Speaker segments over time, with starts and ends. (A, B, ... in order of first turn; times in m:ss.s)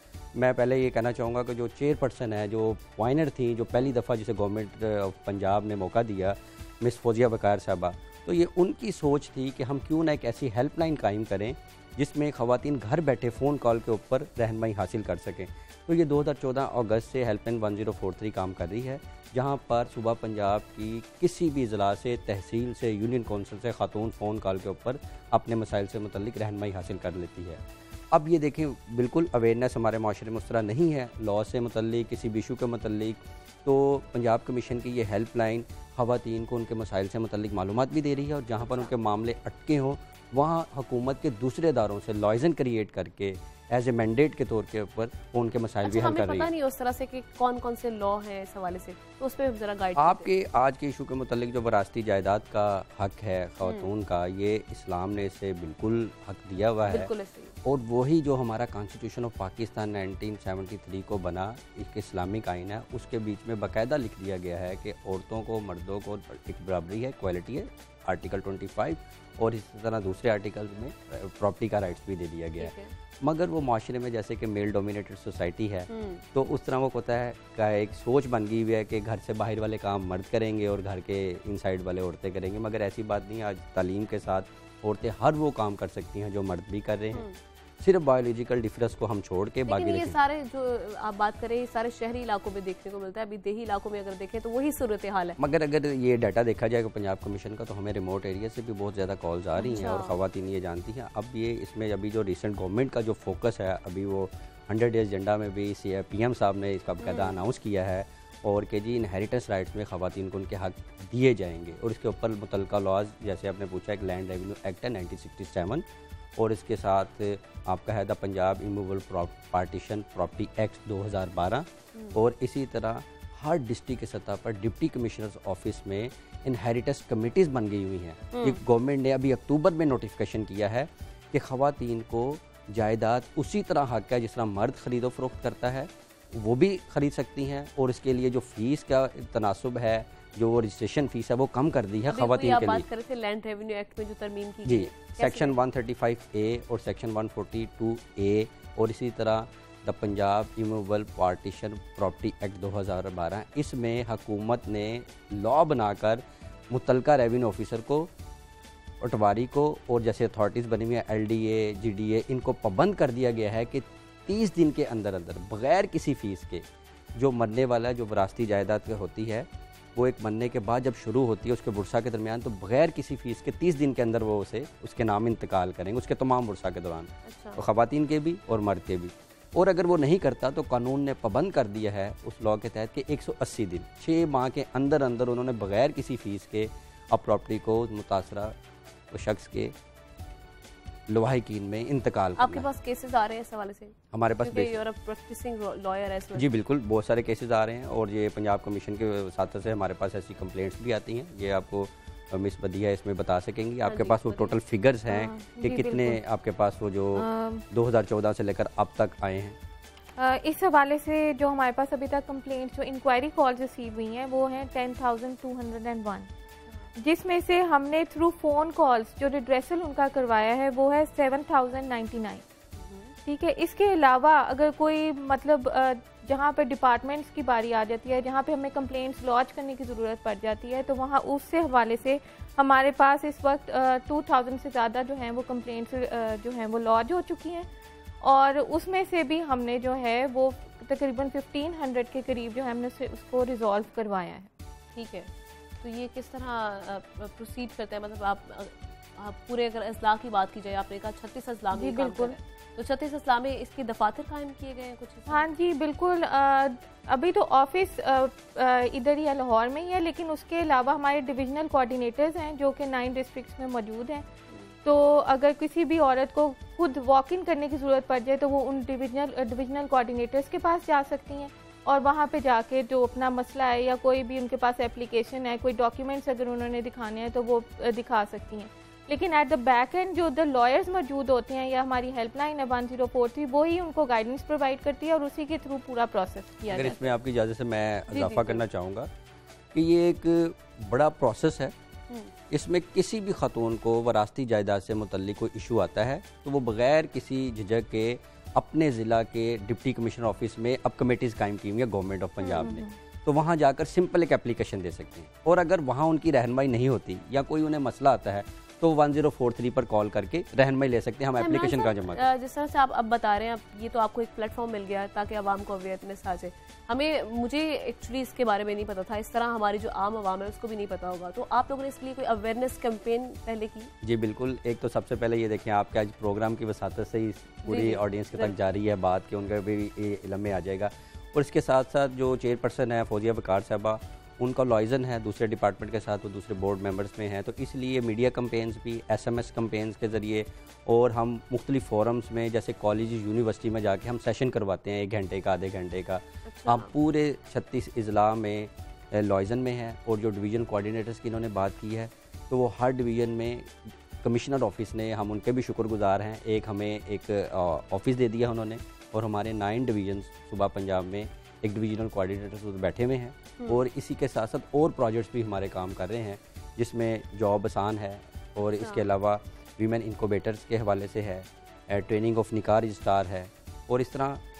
0:00.4-0:27.6 A
0:28.1-0:46.5 A
0:38.6-0:38.9 B
0:45.8-0:50.3 B
0:50.0-0:57.1 A
0:53.6-0:53.9 B
0:56.9-0:57.5 B
0:57.6-1:27.3 A
1:12.6-1:12.9 B
1:15.9-1:16.2 B
1:27.8-1:30.2 A
1:29.7-1:35.4 B
1:35.4-1:55.8 A
1:39.6-1:40.2 B
1:47.0-1:47.4 B
1:56.4-2:22.9 A
2:08.3-2:08.6 B
2:22.1-2:25.6 B
2:24.6-2:38.1 A
2:39.0-2:46.6 A
2:47.2-3:08.6 A
2:57.3-2:57.6 B
3:09.1-3:09.7 A
3:11.1-3:12.7 A
3:12.4-3:16.5 B
3:14.1-3:14.8 A
3:16.4-3:29.6 A
3:23.8-3:24.6 B
3:25.1-3:26.2 C
3:27.2-3:27.6 C
3:30.2-3:36.3 C
3:37.0-3:42.4 C
3:42.8-3:43.1 B
3:43.2-3:57.7 C
3:58.2-4:04.5 C
4:05.0-4:05.3 B
4:05.8-4:15.5 B
4:11.8-4:12.4 C
4:15.3-4:24.3 C
4:24.8-4:47.1 C
4:46.7-4:49.1 A
4:48.1-4:48.6 B
4:49.7-4:51.7 A
4:52.5-5:12.2 A
5:02.4-5:02.8 B
5:02.6-5:03.0 C
5:11.4-5:23.9 B
5:24.0-6:14.4 A
5:27.7-5:28.5 B
5:46.5-5:46.9 B
6:08.8-6:09.1 B